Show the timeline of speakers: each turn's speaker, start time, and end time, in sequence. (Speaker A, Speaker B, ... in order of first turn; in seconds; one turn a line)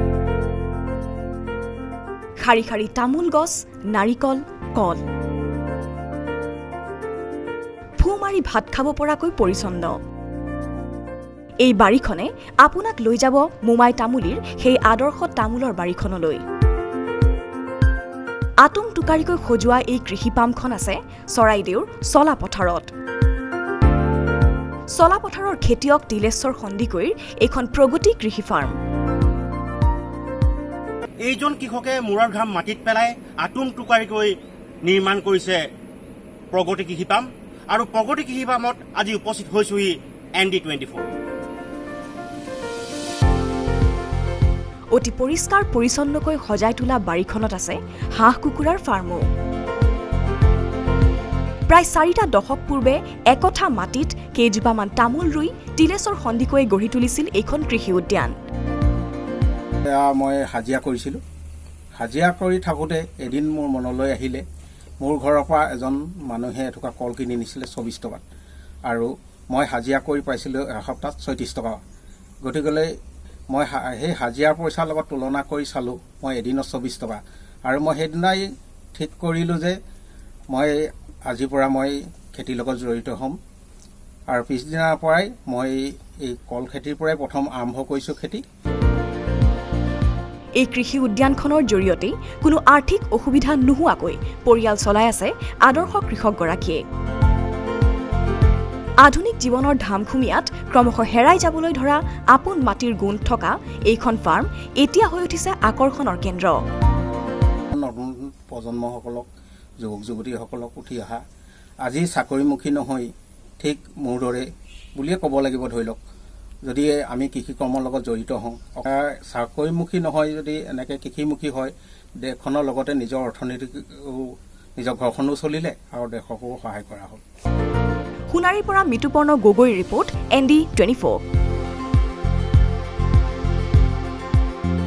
Speaker A: 2.4-5.0
Speaker A: 8.0-10.0
Speaker A: 11.6-16.4
Speaker A: 18.6-22.9
Speaker A: 24.9-28.8
Speaker B: 31.2-34.3
Speaker B: 34.9-35.6
Speaker B: 36.5-41.0
Speaker A: 44.9-49.2
Speaker A: 51.7-58.4
Speaker C: 59.9-61.2
Speaker C: 62.0-64.4
Speaker C: 65.0-68.2
Speaker C: 68.9-71.8
Speaker C: 72.4-72.9
Speaker C: 73.5-79.8
Speaker C: 80.5-83.4
Speaker C: 84.3-88.4
Speaker A: 90.6-96.8
Speaker A: 99.0-106.6
Speaker C: 107.7-109.3
Speaker C: 109.8-111.2
Speaker C: 111.8-116.0
Speaker C: 116.7-127.2
Speaker A: 128.3-131.2